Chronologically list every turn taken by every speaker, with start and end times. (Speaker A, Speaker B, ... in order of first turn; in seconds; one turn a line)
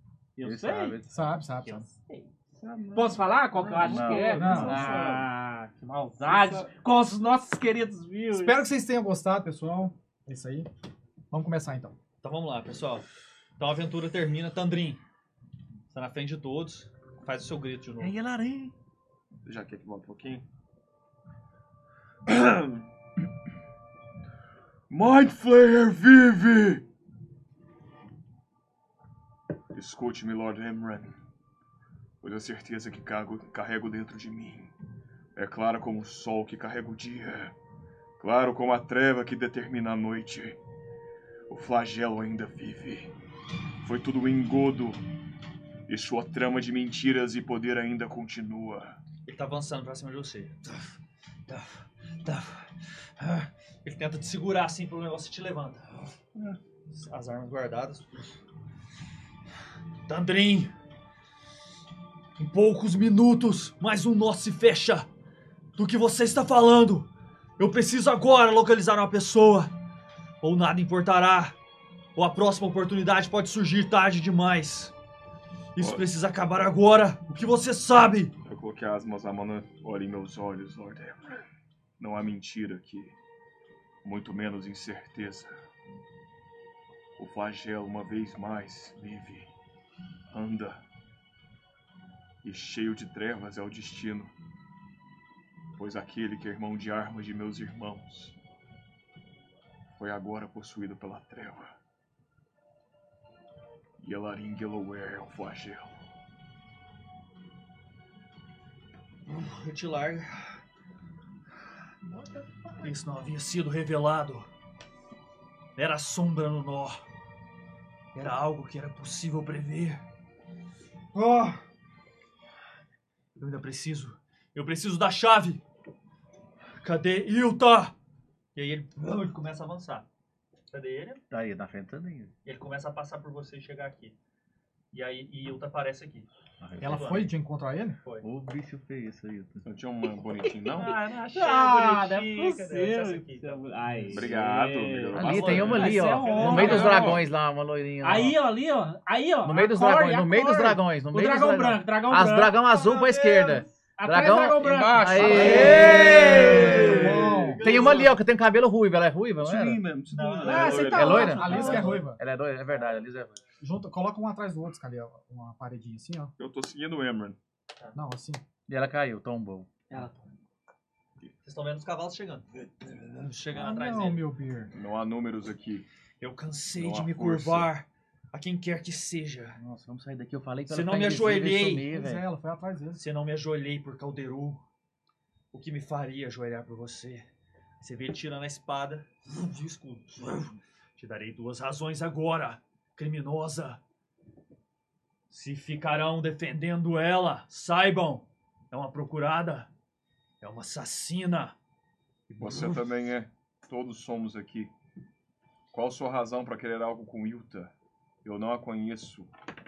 Speaker A: 0.3-2.3
Speaker B: 0.4-1.1
Speaker C: 1.1-1.9
Speaker D: 2.5-5.3
Speaker A: 2.9-8.6
Speaker B: 3.8-4.8
Speaker C: 4.3-4.8
Speaker D: 6.2-6.7
Speaker C: 8.3-10.7
Speaker C: 11.3-11.9
Speaker E: 12.2-13.1
Speaker E: 13.6-15.0
Speaker E: 15.9-18.1
Speaker A: 18.0-18.7
Speaker D: 19.4-20.4
Speaker D: 22.3-22.9
Speaker D: 24.9-26.8
Speaker D: 29.7-31.1
Speaker D: 32.2-34.7
Speaker D: 35.3-37.5
Speaker D: 38.2-40.6
Speaker D: 41.5-43.1
Speaker D: 43.8-45.0
Speaker D: 45.9-49.0
Speaker E: 49.2-56.1
Speaker E: 56.9-58.3
Speaker E: 60.1-60.7
Speaker E: 62.4-65.1
Speaker E: 65.8-69.7
Speaker E: 70.4-71.5
Speaker E: 72.2-74.9
Speaker E: 75.8-78.3
Speaker D: 75.8-76.0
Speaker D: 78.4-81.4
Speaker D: 82.0-83.1
Speaker D: 84.0-85.5
Speaker D: 87.2-89.5
Speaker D: 90.3-90.8
Speaker D: 92.4-94.3
Speaker D: 95.8-98.3
Speaker D: 99.9-101.7
Speaker D: 104.0-106.0
Speaker E: 109.3-110.6
Speaker E: 112.8-114.5
Speaker E: 115.8-117.0
Speaker E: 118.1-120.0
Speaker E: 121.1-121.6
Speaker E: 123.4-125.6
Speaker E: 126.8-127.9
Speaker E: 128.5-130.1
Speaker E: 130.7-131.2
Speaker B: 131.3-132.3
Speaker E: 132.4-134.2
Speaker E: 134.9-136.3
Speaker B: 136.6-137.2
Speaker C: 136.8-138.0
Speaker E: 136.8-137.3
Speaker E: 138.0-138.2
Speaker B: 138.2-139.6
Speaker D: 139.6-141.0
Speaker A: 140.2-147.2
Speaker E: 140.8-143.6
Speaker B: 143.9-144.3
Speaker D: 144.1-147.2
Speaker B: 145.1-148.4
Speaker E: 146.0-147.2
Speaker A: 148.0-152.7
Speaker B: 149.4-159.8
Speaker A: 154.0-156.8
Speaker D: 154.5-158.2
Speaker E: 155.3-158.1
Speaker C: 155.4-157.7
Speaker D: 159.4-161.4
Speaker E: 160.1-161.0
Speaker A: 160.4-162.1
Speaker B: 160.8-163.4
Speaker C: 161.2-162.2
Speaker E: 161.6-161.9
Speaker C: 163.6-166.3
Speaker D: 166.4-167.4
Speaker C: 167.9-168.4
Speaker B: 168.7-169.7
Speaker A: 169.9-170.2
Speaker E: 171.4-172.5
Speaker D: 172.8-173.1
Speaker E: 173.1-174.3
Speaker C: 173.5-174.7
Speaker D: 174.7-175.8
Speaker E: 176.2-179.6
Speaker D: 176.8-177.7
Speaker B: 179.6-182.2
Speaker E: 180.7-181.8
Speaker C: 181.8-183.0
Speaker E: 182.9-184.6
Speaker E: 185.5-187.2
Speaker E: 187.8-193.8
Speaker E: 195.3-199.7
Speaker E: 200.4-201.6
Speaker E: 202.3-202.8
Speaker D: 202.4-204.7
Speaker D: 205.7-207.7
Speaker D: 208.2-209.3